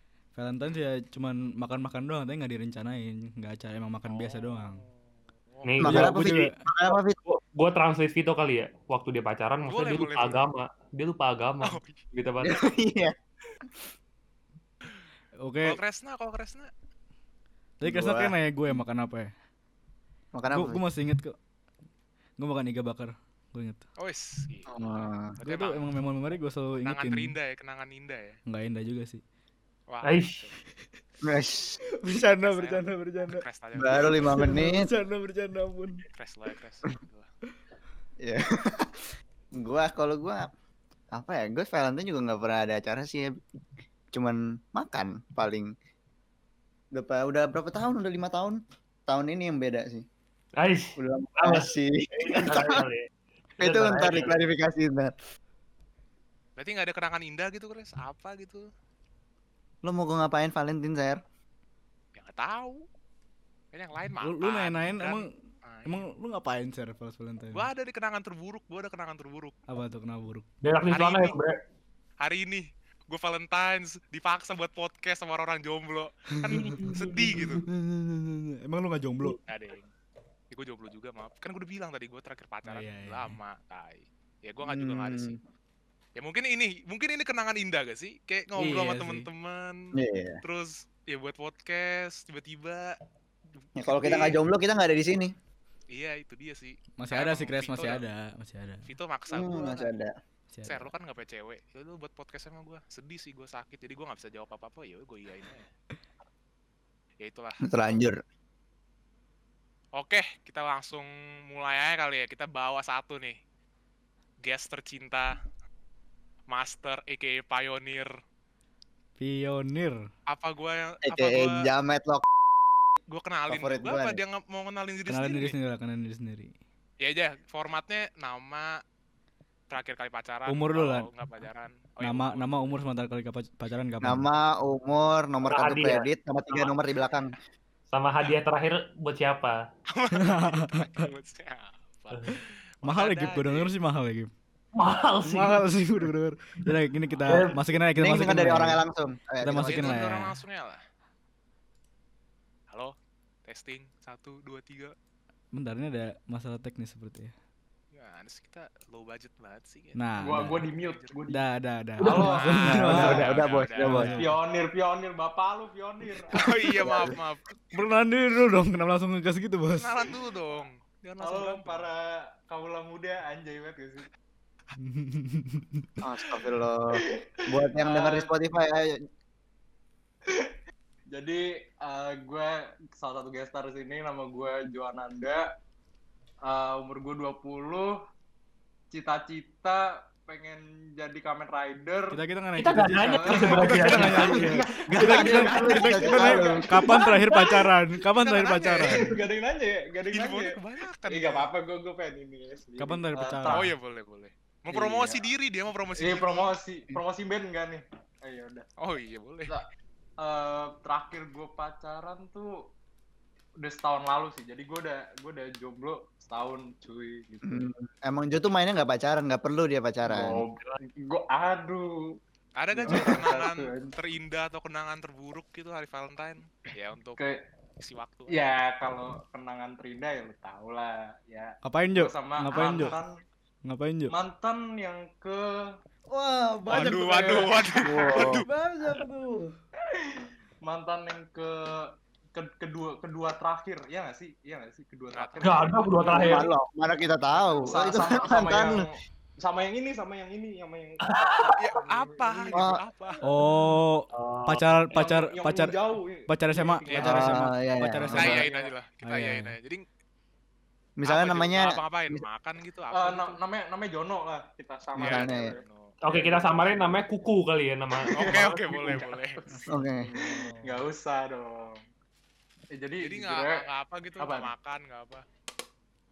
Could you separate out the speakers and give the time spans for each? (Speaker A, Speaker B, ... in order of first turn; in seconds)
Speaker A: 0.3-4.8, 5.8-6.6, 15.4-15.8, 17.8-19.3, 20.5-21.4, 22.4-23.9, 25.4-27.4, 28.5-29.2, 32.0-33.4, 34.1-36.0, 64.2-65.3, 65.9-67.7, 69.7-70.5, 76.4-76.9, 77.6-79.4, 82.7-83.4, 88.6-89.3, 97.0-98.9, 100.5-100.9, 119.2-120.1, 125.1-126.5, 130.5-131.1, 132.0-134.3, 140.1-141.1, 142.3-144.3, 145.3-148.8, 149.4-150.4, 155.5-157.3, 159.9-160.6, 161.3-163.2, 163.8-164.3, 167.7-170.2, 174.8-175.9, 192.1-199.1, 202.8-203.7, 231.6-233.0, 233.7-234.1, 236.1-239.6, 253.2-258.4, 259.0-259.6, 269.5-270.3
Speaker B: 4.1-4.9, 5.5-6.0, 9.6-10.5, 11.6-12.0, 15.6-16.7, 24.0-25.8, 26.8-28.4, 29.9-30.6, 32.4-34.4, 36.1-37.3, 56.6-58.6, 62.2-62.9, 63.7-66.1, 67.5-69.5, 70.9-71.4, 72.2-77.6, 79.4-79.9, 80.5-85.4, 86.2-93.0, 93.6-94.4, 95.9-98.0, 98.9-100.0, 100.7-105.7, 107.2-107.7, 110.0-113.4, 114.4-115.4, 116.5-118.2, 120.3-121.6, 123.1-125.5, 127.0-128.8, 129.7-132.7, 139.9-143.7, 149.7-150.8, 153.4-154.9, 157.9-161.1, 162.3-164.0, 166.3-167.4, 169.8-171.9, 193.9-194.3, 198.2-199.1, 200.1-201.5, 203.5-206.5, 208.8-209.5, 222.6-227.2, 227.8-228.5, 236.7-238.5, 245.1-245.5, 251.6-253.2, 256.9-257.1, 258.1-259.8, 261.1-263.4, 265.0-265.9, 268.1-269.4, 273.0-275.2
Speaker C: 5.6-6.3, 6.9-12.6, 30.0-30.5, 50.6-53.1, 53.6-54.4, 70.6-71.6, 76.5-77.6, 135.5-136.1, 137.9-139.6, 142.1-142.4, 144.8-145.6, 147.3-147.6, 162.0-162.3, 192.6-194.6, 237.8-238.4, 245.4-246.5, 251.1-251.6, 254.1-254.7, 266.0-268.3
Speaker D: 5.8-7.2, 12.4-13.1, 17.8-18.8, 20.4-20.8, 24.7-25.4, 31.2-31.8, 33.8-34.9, 38.2-40.5, 41.1-43.4, 44.1-45.7, 46.9-50.1, 51.0-52.8, 53.6-55.1, 59.8-61.2, 84.6-85.4, 90.0-90.4, 93.8-95.3, 99.3-100.1, 107.6-108.2, 121.1-122.2, 123.5-124.2, 134.0-137.3, 148.0-150.1, 162.6-164.4, 176.0-178.9, 194.9-196.8, 217.4-220.4, 222.9-223.3, 246.1-248.9, 252.5-252.8, 257.0-258.4, 261.0-262.2, 265.0-265.5, 269.7-270.1
Speaker E: 160.2-161.4, 162.0-162.4, 164.2-166.9, 171.2-174.1, 177.2-178.3, 181.1-185.4, 186.5-187.9, 188.9-192.2, 192.9-197.5, 198.8-203.7, 204.7-205.2, 206.0-208.7, 210.2-212.5, 213.6-217.7, 220.1-222.0, 222.7-223.9, 228.3-233.2, 234.1-235.7, 237.7-238.0, 239.9-246.5, 247.6-252.6, 254.9-257.4, 258.1-258.7, 262.9-266.9, 268.0-271.8, 272.7-273.6, 274.2-274.5